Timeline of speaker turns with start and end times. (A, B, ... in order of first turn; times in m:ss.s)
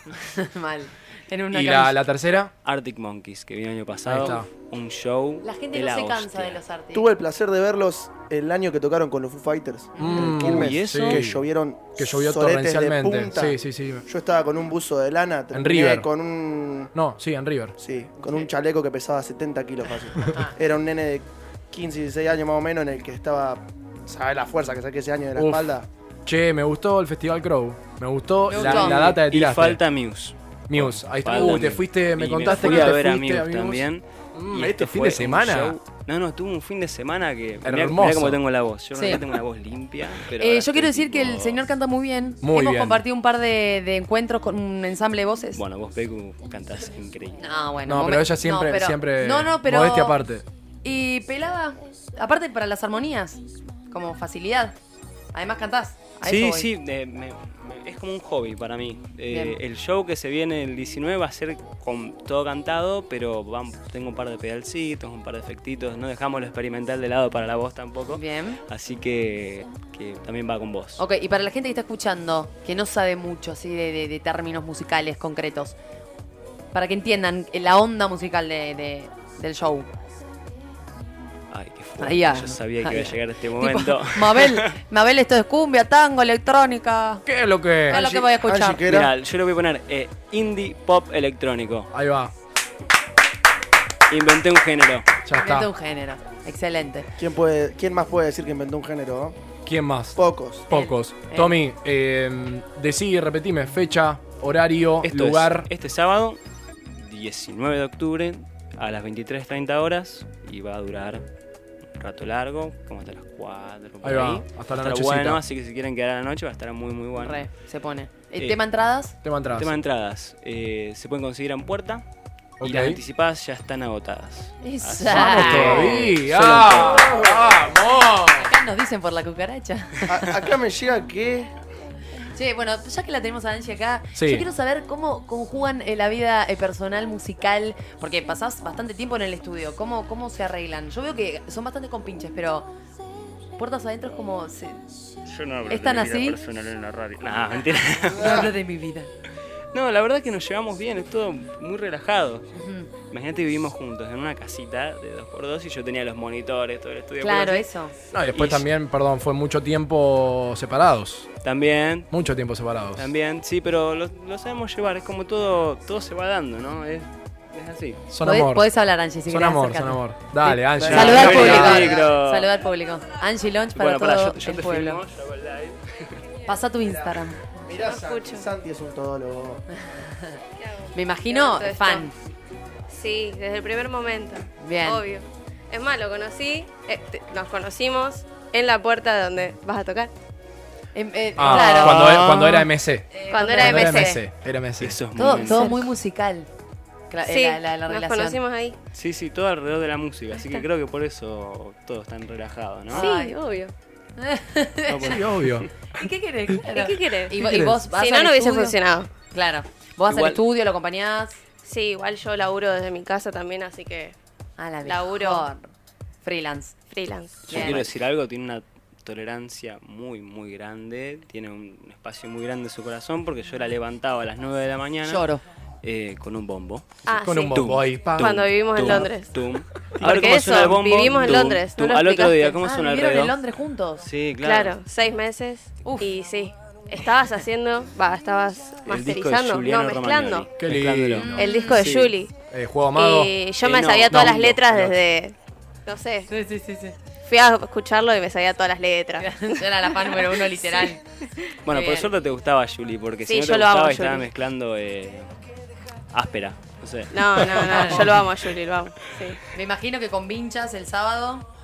0:00.1-0:02.0 A
0:01.5-0:02.5 B
0:02.6-0:06.6 C
0:04.0-0:04.5 B
0:05.4-0:07.1 A
0:06.9-0:16.9 D
0:10.0-0:10.2 A
0:10.0-0:11.4 B
0:10.3-0:11.2 C
0:12.0-0:14.0 B
0:15.5-0:16.1 B
0:16.9-0:17.7 B
0:17.8-0:25.9 D
0:20.2-0:20.5 A
0:25.4-0:25.7 B
0:26.2-0:29.8 B
0:28.5-0:29.2 A
0:28.6-0:41.6 C
0:30.7-0:35.8 B
0:37.6-0:38.4 B
0:39.0-0:39.2 A
0:40.4-0:45.6 A
0:42.4-0:43.0 B
0:45.5-0:47.4 C
0:47.4-0:50.2 A
0:47.8-0:50.4 B
0:50.8-0:54.7 A
0:55.3-0:56.7 A
0:56.2-1:11.0 C
0:59.3-0:59.6 A
1:08.1-1:08.6 A
1:11.0-1:15.8 A
1:16.7-1:19.9 A
1:21.5-1:24.7 C
1:22.0-1:27.2 A
1:27.2-1:28.0 B
1:27.9-1:28.8 A
1:27.9-1:29.1 D
1:28.8-1:31.9 C
1:31.9-1:32.3 B
1:34.1-1:35.1 C
1:35.2-1:35.7 B
1:35.3-1:37.1 A
1:37.2-1:39.4 D
1:39.6-1:45.7 B
1:40.1-1:40.7 D
1:40.7-1:41.5 A
1:45.0-1:51.2 C
1:52.0-1:57.4 C
1:54.0-1:55.4 B
1:57.2-1:59.1 A
1:59.2-1:59.7 B
1:59.5-2:02.0 C
2:02.6-2:03.0 B
2:02.6-2:07.5 C
2:04.6-2:06.1 A
2:05.0-2:08.5 B
2:08.3-2:10.1 A
2:10.1-2:11.5 D
2:12.3-2:22.7 A
2:14.2-2:14.4 B
2:23.6-2:24.8 A
2:25.2-2:28.5 C
2:25.7-2:26.4 A
2:28.1-2:29.1 A
2:28.2-2:28.5 D
2:29.7-2:32.5 C
2:32.5-2:32.9 A
2:33.1-2:37.7 C
2:37.2-2:37.9 A
2:38.1-2:41.3 B
2:38.3-2:38.6 C
2:41.4-2:42.1 C
2:42.1-2:43.1 B
2:43.0-2:48.0 C
2:48.1-2:48.7 B
2:48.2-2:55.0 A
2:49.3-2:51.9 B
2:50.8-2:52.0 D
2:50.9-2:52.6 C
2:53.7-2:56.0 C
2:56.5-2:57.5 A
2:57.6-2:59.6 D
2:57.7-2:58.5 E
2:59.9-3:00.4 A
3:00.6-3:02.1 E
3:00.9-3:02.1 A
3:02.9-3:10.1 E
3:04.6-3:05.0 A
3:10.9-3:14.2 A
3:11.4-3:15.0 B
3:11.5-3:11.9 E
3:13.3-3:14.2 E
3:14.8-3:15.7 C
3:15.2-3:16.5 A
3:15.4-3:15.8 E
3:17.1-3:18.4 A
3:17.2-3:18.8 E
3:18.9-3:23.1 C
3:20.4-3:20.6 E
3:22.9-3:23.4 A
3:22.9-3:23.7 E
3:24.2-3:25.2 A
3:24.9-3:25.7 C
3:25.0-3:25.7 B
3:25.9-3:28.8 A
3:26.7-3:29.1 E
3:27.4-3:27.7 B
3:29.3-3:31.4 A
3:30.1-3:30.4 C
3:31.6-3:34.1 E
3:34.6-3:35.7 A
3:34.8-3:35.5 E
3:36.2-3:36.8 A
3:36.9-3:37.8 E
3:37.5-3:45.2 C
3:37.5-3:37.9 A
3:45.0-3:45.4 A
3:45.8-3:47.0 C
3:47.0-3:49.3 E
3:47.2-3:49.1 B
3:47.5-3:48.0 C
3:48.8-3:53.4 C
3:50.0-3:52.3 E
3:51.0-3:54.0 A
3:54.0-3:54.7 C
3:54.4-4:00.5 E
3:58.9-4:02.0 C
4:00.6-4:03.3 B
4:01.2-4:01.9 A
4:01.3-4:02.3 E
4:02.9-4:06.3 E
4:03.6-4:04.6 C
4:04.1-4:04.9 B
4:06.3-4:06.9 A
4:07.2-4:10.9 E
4:09.2-4:11.0 A
4:11.6-4:15.3 C
4:11.7-4:12.1 A
4:13.2-4:14.3 E
4:16.1-4:18.1 C
4:17.1-4:19.4 E
4:17.6-4:18.1 A
4:19.5-4:21.4 A